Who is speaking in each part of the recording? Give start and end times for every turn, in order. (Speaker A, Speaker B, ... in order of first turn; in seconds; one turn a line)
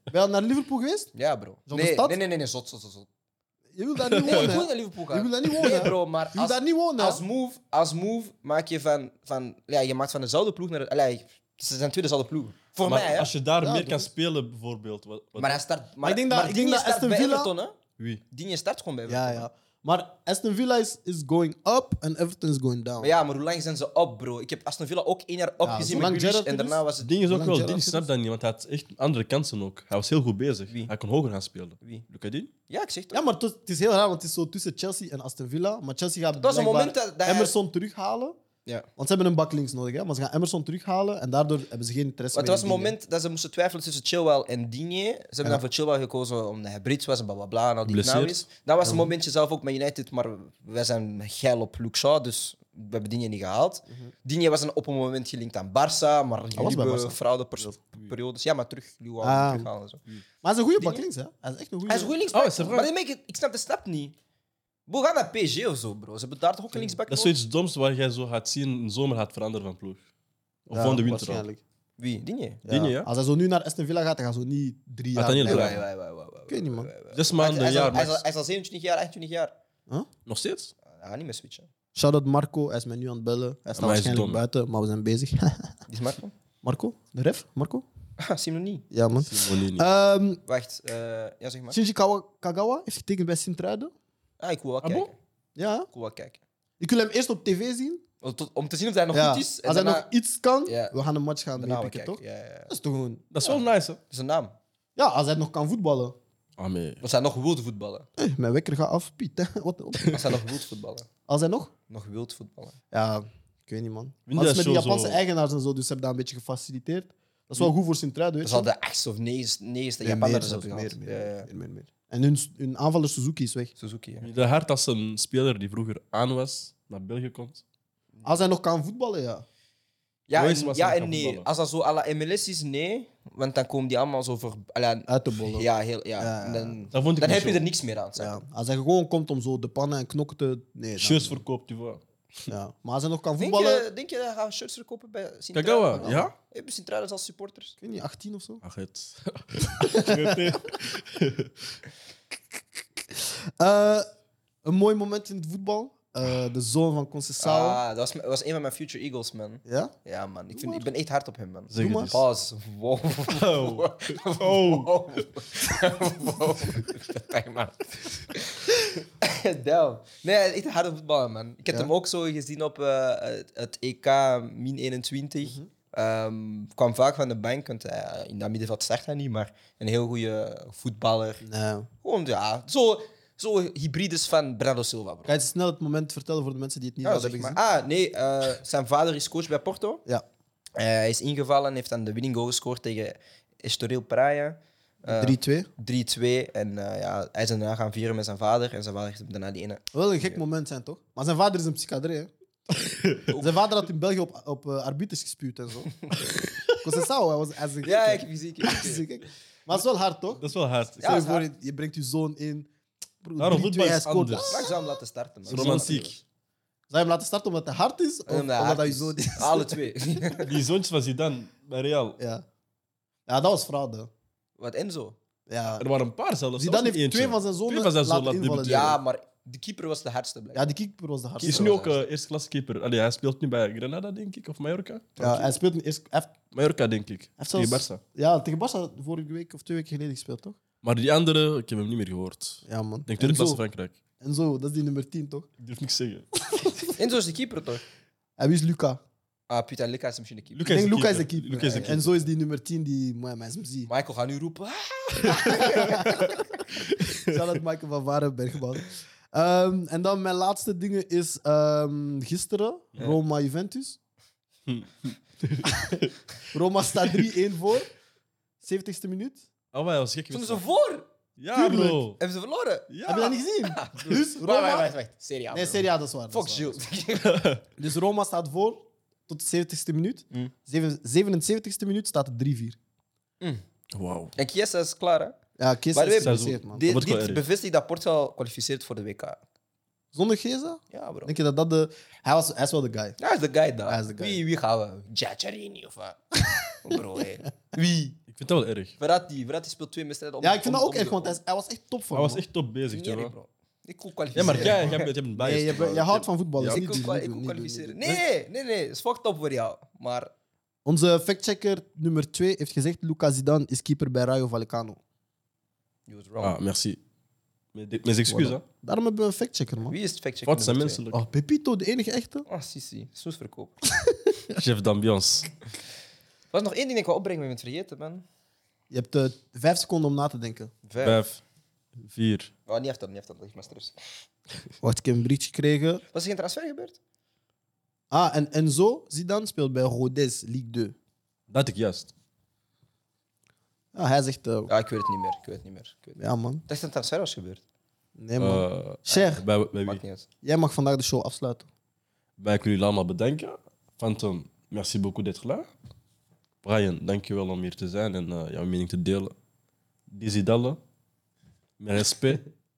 Speaker A: 0.1-1.1
Speaker B: 1.1-3.1
Speaker A: 1.7-2.2
Speaker A: 3.7-7.2
Speaker C: 4.0-4.6
Speaker B: 4.2-13.3
Speaker C: 5.6-5.9
Speaker C: 12.8-15.6
Speaker A: 13.6-14.1
Speaker B: 15.4-17.8
Speaker A: 16.0-17.5
Speaker B: 18.3-19.4
Speaker A: 19.1-23.1
Speaker B: 23.0-27.2
Speaker A: 25.6-28.1
Speaker C: 27.0-32.5
Speaker B: 32.7-33.2
Speaker A: 33.1-38.4
Speaker B: 36.4-37.5
Speaker A: 39.0-43.0
Speaker B: 42.3-60.0
Speaker C: 47.9-48.4
Speaker A: 48.8-49.1
Speaker A: 56.5-57.8
Speaker A: 59.2-59.7
Speaker A: 60.4-62.1
Speaker B: 60.8-61.1
Speaker B: 61.9-64.1
Speaker C: 62.3-62.9
Speaker B: 64.9-67.4
Speaker C: 67.1-70.0
Speaker C: 70.7-71.5
Speaker A: 70.7-71.6
Speaker B: 72.0-72.6
Speaker A: 72.7-75.8
Speaker C: 72.7-73.1
Speaker C: 75.2-75.8
Speaker B: 75.4-79.5
Speaker A: 76.5-76.9
Speaker C: 77.1-78.2
Speaker C: 80.3-80.7
Speaker B: 80.8-81.7
Speaker A: 82.0-85.8
Speaker C: 83.8-84.4
Speaker B: 85.9-86.3
Speaker A: 86.6-87.8
Speaker B: 88.2-88.9
Speaker A: 88.9-90.4
Speaker C: 89.2-89.8
Speaker B: 90.5-91.8
Speaker A: 91.7-93.9
Speaker B: 94.4-95.2
Speaker C: 94.8-95.1
Speaker A: 95.6-95.9
Speaker B: 95.9-96.4
Speaker A: 96.8-98.0
Speaker B: 98.2-100.1
Speaker A: 99.1-103.2
Speaker B: 100.7-100.9
Speaker B: 101.6-102.7
Speaker C: 103.3-104.0
Speaker B: 103.4-104.5
Speaker A: 105.0-106.2
Speaker C: 106.6-107.0
Speaker B: 107.0-108.1
Speaker A: 108.2-110.2
Speaker B: 110.1-111.1
Speaker A: 111.3-111.7
Speaker B: 111.9-112.8
Speaker A: 112.9-118.7
Speaker C: 114.3-115.2
Speaker B: 118.4-121.5
Speaker A: 120.0-123.7
Speaker B: 123.8-124.3
Speaker C: 124.2-127.6
Speaker A: 128.2-129.4
Speaker B: 130.3-138.4
Speaker C: 130.3-131.5
Speaker A: 135.1-135.7
Speaker A: 136.2-136.8
Speaker C: 136.9-137.7
Speaker A: 138.2-141.4
Speaker C: 141.0-142.0
Speaker A: 142.5-143.9
Speaker B: 143.4-147.8
Speaker C: 145.5-146.3
Speaker A: 146.0-146.3
Speaker A: 147.8-148.6
Speaker C: 148.6-151.8
Speaker A: 149.8-150.6
Speaker A: 153.0-154.1
Speaker A: 154.6-157.8
Speaker B: 157.4-181.4
Speaker A: 159.7-159.9
Speaker A: 160.5-160.9
Speaker C: 161.7-162.2
Speaker A: 161.8-162.1
Speaker C: 163.3-164.9
Speaker A: 175.4-175.7
Speaker A: 181.4-181.9
Speaker B: 182.0-185.3
Speaker A: 185.3-187.6
Speaker B: 187.0-190.0
Speaker B: 190.8-199.8
Speaker A: 195.1-195.7
Speaker A: 199.9-202.3
Speaker C: 202.8-203.3
Speaker B: 203.3-203.6
Speaker A: 203.4-205.9
Speaker A: 206.8-210.4
Speaker B: 207.8-209.1
Speaker C: 210.4-211.2
Speaker B: 211.0-211.5
Speaker A: 211.0-212.7
Speaker A: 213.2-214.8
Speaker C: 213.4-214.7
Speaker B: 214.4-216.2
Speaker A: 215.5-216.1
Speaker C: 215.5-216.2
Speaker A: 216.9-219.8
Speaker B: 218.3-220.5
Speaker C: 220.4-222.2
Speaker A: 222.2-222.4
Speaker A: 223.3-224.1
Speaker B: 224.6-225.2
Speaker A: 225.5-225.8
Speaker C: 225.8-229.0
Speaker A: 226.6-229.0
Speaker B: 228.6-230.7
Speaker A: 230.5-231.8
Speaker B: 231.4-232.0
Speaker C: 231.4-235.6
Speaker A: 235.2-236.3
Speaker C: 236.5-238.0
Speaker A: 237.4-240.6
Speaker C: 240.8-244.0
Speaker A: 242.7-243.6
Speaker A: 244.2-245.5
Speaker C: 245.6-246.7
Speaker A: 246.6-246.9
Speaker B: 247.0-247.8
Speaker A: 248.4-249.0
Speaker B: 249.5-250.7
Speaker C: 250.5-252.1
Speaker A: 250.7-253.9
Speaker B: 253.9-256.2
Speaker A: 255.4-256.4
Speaker C: 255.4-257.4
Speaker A: 257.2-264.0
Speaker C: 264.7-266.2
Speaker A: 265.6-266.0
Speaker A: 266.5-267.9
Speaker A: 268.6-269.4
Speaker C: 269.7-270.6
Speaker B: 270.3-271.1
Speaker C: 271.4-272.2
Speaker A: 271.5-272.1
Speaker B: 272.2-272.9
Speaker C: 272.9-273.4
Speaker A: 273.1-274.9
Speaker B: 273.7-277.4
Speaker A: 275.5-276.8
Speaker C: 277.2-277.6
Speaker A: 277.8-282.8
Speaker C: 283.9-284.3
Speaker B: 284.4-285.4
Speaker A: 285.6-286.8
Speaker B: 285.9-289.4
Speaker C: 286.2-287.4
Speaker A: 290.1-293.2
Speaker B: 290.9-291.4
Speaker B: 293.2-296.2
Speaker A: 293.9-294.4
Speaker B: 296.7-298.2
Speaker C: 298.3-299.0
Speaker B: 299.0-301.4
Speaker A: 300.4-302.4
Speaker C: 302.1-303.3
Speaker B: 302.9-305.1
Speaker C: 304.4-307.1
Speaker A: 304.4-308.0
Speaker B: 306.7-310.3
Speaker A: 310.9-315.0
Speaker B: 316.1-316.6
Speaker C: 316.4-317.0
Speaker C: 317.7-318.6
Speaker A: 318.3-320.0
Speaker B: 319.9-321.0
Speaker C: 320.5-321.2
Speaker A: 321.1-322.5
Speaker B: 322.5-323.7
Speaker A: 324.0-324.4
Speaker C: 324.6-325.5
Speaker B: 326.5-328.2
Speaker A: 328.9-330.7
Speaker B: 330.9-331.2
Speaker C: 331.0-331.4
Speaker C: 332.0-332.5
Speaker B: 332.7-333.9
Speaker A: 334.8-336.0
Speaker B: 336.1-337.0
Speaker A: 338.1-340.9
Speaker C: 341.5-342.1
Speaker A: 343.9-344.7
Speaker B: 344.7-347.6
Speaker A: 346.2-346.6
Speaker A: 348.2-349.4
Speaker C: 348.4-350.0
Speaker B: 349.1-350.3
Speaker A: 350.4-351.7
Speaker C: 352.4-355.7
Speaker C: 356.6-359.4
Speaker C: 360.1-360.8
Speaker C: 361.8-362.4